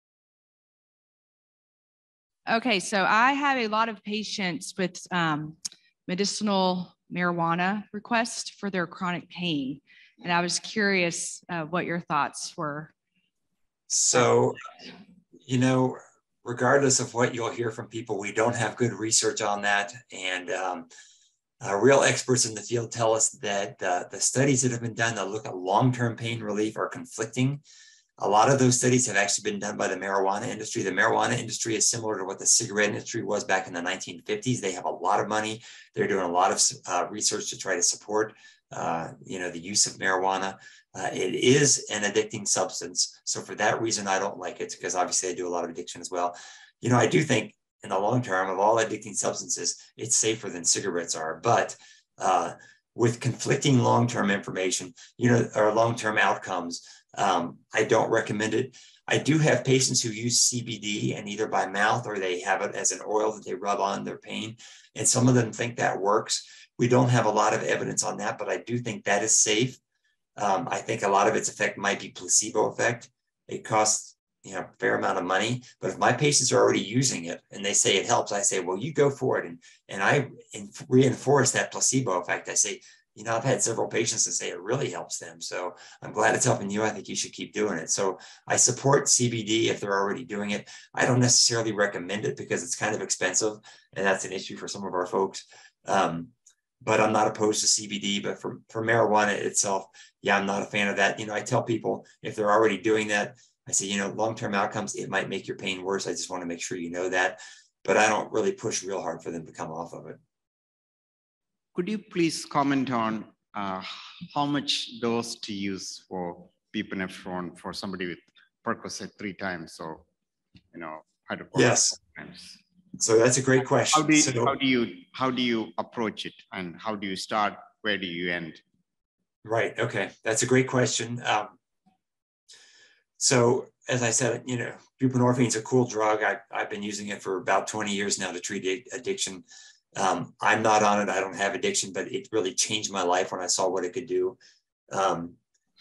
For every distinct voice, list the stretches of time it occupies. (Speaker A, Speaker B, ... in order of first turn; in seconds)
Speaker A: 2.5-5.5, 6.1-12.9
Speaker B: 13.9-14.6, 15.4-20.9, 21.6-27.6, 28.2-69.8, 70.4-110.2, 121.5-122.0, 123.0-124.5, 129.4-131.5, 133.2-139.4, 139.9-144.4, 144.9-145.3
Speaker C: 111.7-120.0, 120.7-122.6, 123.9-128.6